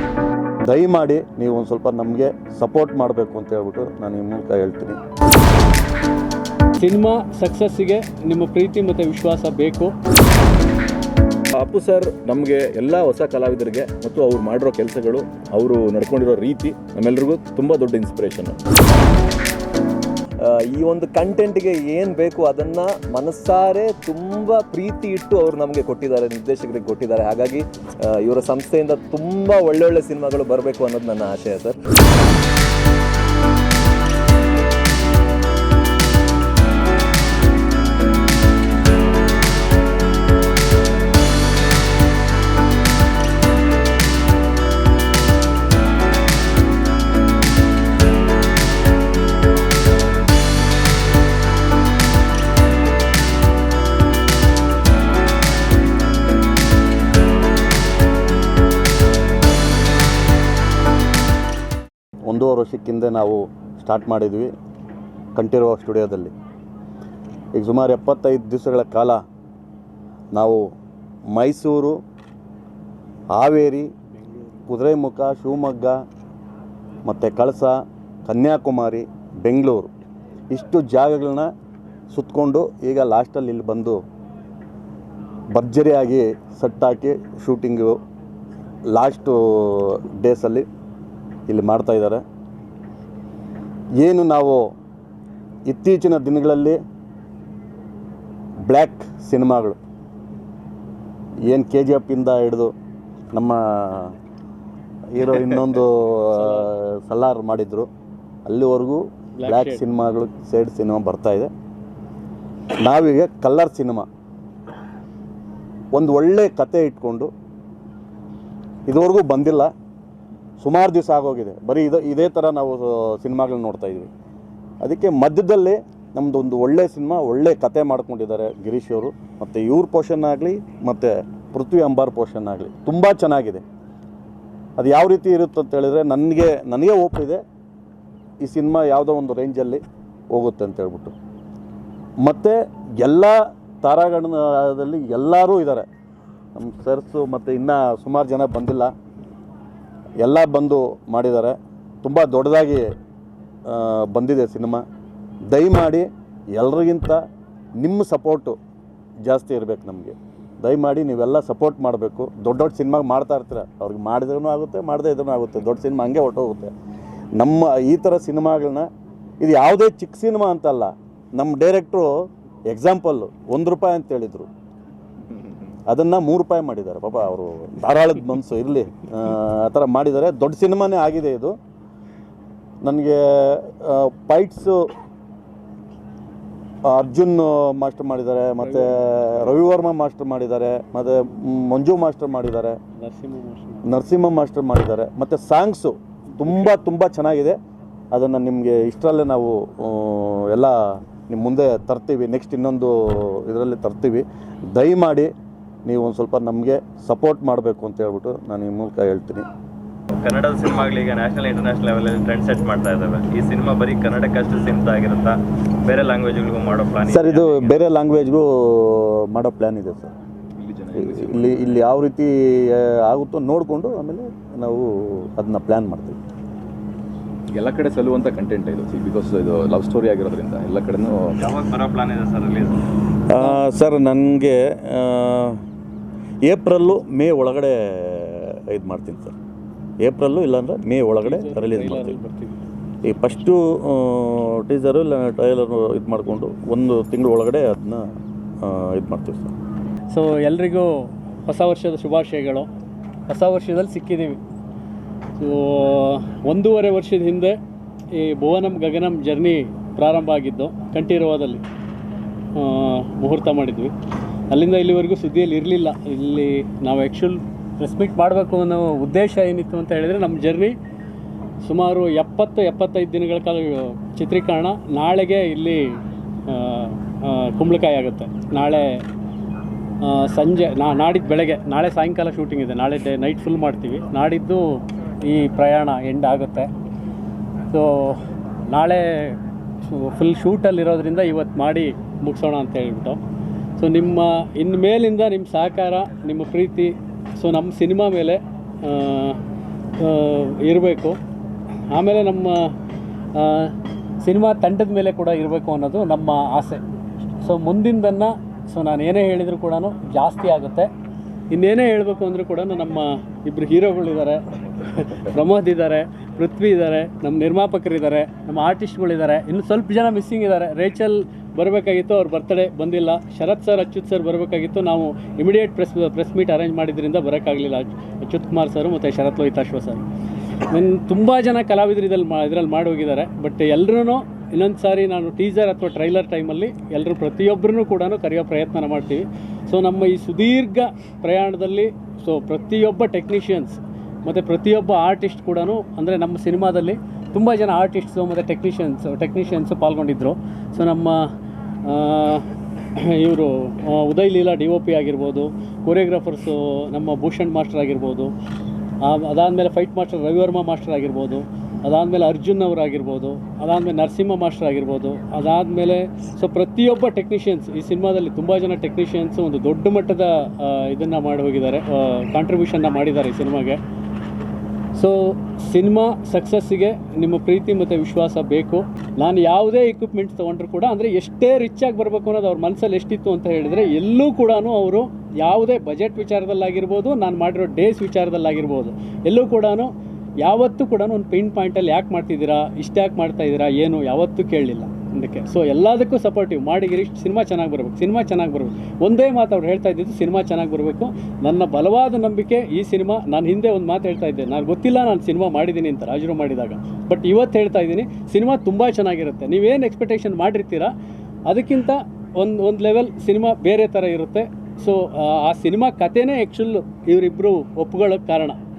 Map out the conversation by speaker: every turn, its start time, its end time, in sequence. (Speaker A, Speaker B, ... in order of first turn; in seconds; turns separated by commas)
Speaker A: 0.7-5.0, Speaker B: 6.8-9.9, Speaker C: 11.5-18.6, Speaker D: 20.4-31.8, Speaker A: 62.3-64.5, Speaker A: 65.4-66.3, Speaker A: 67.6-69.2, Speaker A: 70.3-70.6, Speaker A: 71.3-72.0, Speaker A: 73.3-73.9, Speaker A: 74.7-76.0, Speaker A: 77.0-79.9, Speaker A: 80.5-81.5, Speaker A: 82.1-84.0, Speaker A: 85.5-88.0, Speaker A: 88.9-90.7, Speaker A: 91.5-92.2, Speaker A: 94.0-94.7, Speaker A: 95.7-96.8, Speaker A: 98.7-99.8, Speaker A: 101.5-102.7, Speaker A: 103.3-104.1, Speaker A: 105.1-107.9, Speaker A: 108.5-111.5, Speaker B: 109.4-109.8, Speaker A: 112.8-114.1, Speaker A: 115.9-117.3, Speaker A: 118.9-119.7, Speaker A: 120.6-124.1, Speaker A: 124.8-133.6, Speaker A: 134.8-137.4, Speaker A: 138.4-141.1, Speaker A: 142.2-145.9, Speaker A: 146.6-148.9, Speaker A: 150.2-152.9, Speaker A: 153.7-154.8, Speaker A: 155.5-157.2, Speaker A: 157.8-158.6, Speaker A: 159.2-166.7, Speaker A: 167.4-168.9, Speaker A: 169.4-174.5, Speaker A: 175.9-181.6, Speaker A: 182.8-184.9, Speaker A: 186.9-192.8, Speaker B: 193.0-193.9, Speaker A: 193.8-197.6, Speaker A: 198.1-200.8, Speaker A: 201.3-205.3, Speaker A: 205.9-209.5, Speaker E: 210.2-217.8, Speaker A: 217.1-220.1, Speaker C: 220.6-221.7, Speaker A: 221.0-226.2, Speaker C: 227.5-231.6, Speaker E: 231.4-232.8, Speaker A: 233.3-235.6, Speaker A: 236.5-239.4, Speaker A: 240.0-242.2, Speaker B: 241.2-242.6, Speaker A: 243.1-248.1, Speaker A: 248.6-249.5, Speaker B: 250.1-252.7, Speaker B: 253.3-254.4, Speaker B: 255.4-257.6, Speaker B: 258.2-261.6, Speaker B: 262.6-263.9, Speaker B: 264.5-270.8, Speaker B: 271.6-275.9, Speaker B: 276.5-279.0, Speaker B: 280.0-286.7, Speaker B: 287.7-289.4, Speaker B: 289.9-293.2, Speaker B: 293.8-299.4, Speaker B: 300.0-301.2, Speaker B: 301.9-302.7, Speaker B: 303.4-306.8, Speaker B: 307.4-310.9, Speaker B: 311.5-330.0, Speaker B: 330.7-351.2, Speaker B: 351.9-352.5, Speaker B: 353.1-358.3, Speaker B: 359.0-373.8, Speaker B: 374.9-389.9, Speaker B: 390.4-410.9, Speaker B: 411.5-418.6